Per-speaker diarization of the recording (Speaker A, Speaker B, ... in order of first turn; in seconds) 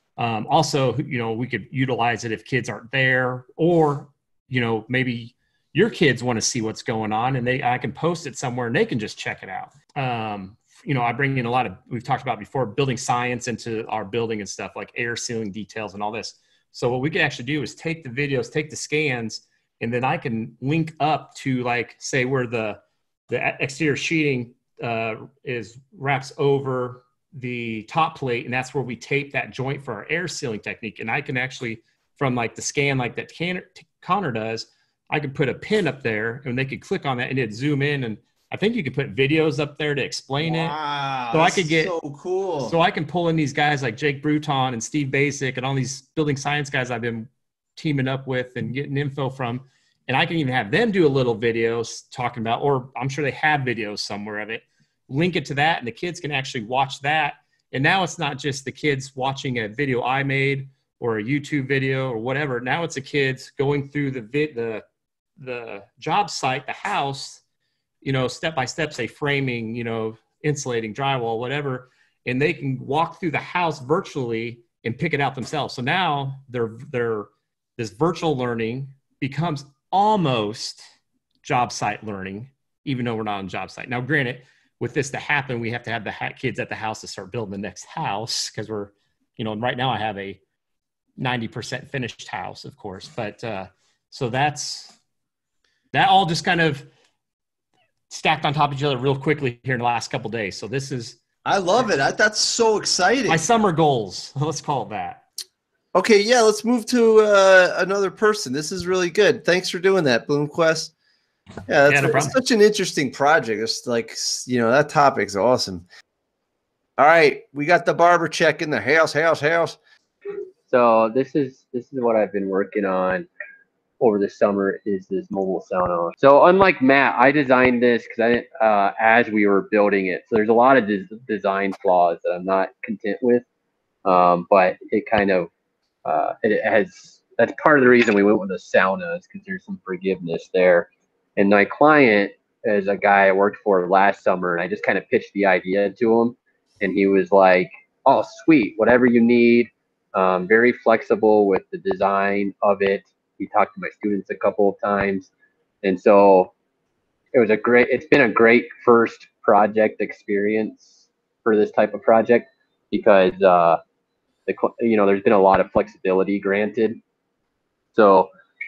Speaker A: 0.2-40.7, 41.3-41.9, 42.6-64.8, 65.4-67.4, 68.0-80.8, 81.4-90.4, 91.2-95.0, 95.9-96.9, 98.1-101.2, 103.3-105.2, 111.8-112.3
Speaker B: 40.4-42.7, 101.4-103.4, 105.9-110.9, 111.7-115.8, 117.0-119.8
Speaker C: 120.7-123.3, 124.0-133.4, 134.0-135.5, 136.1-155.3, 155.8-156.5, 157.3-163.8, 164.5-167.0, 167.9-168.3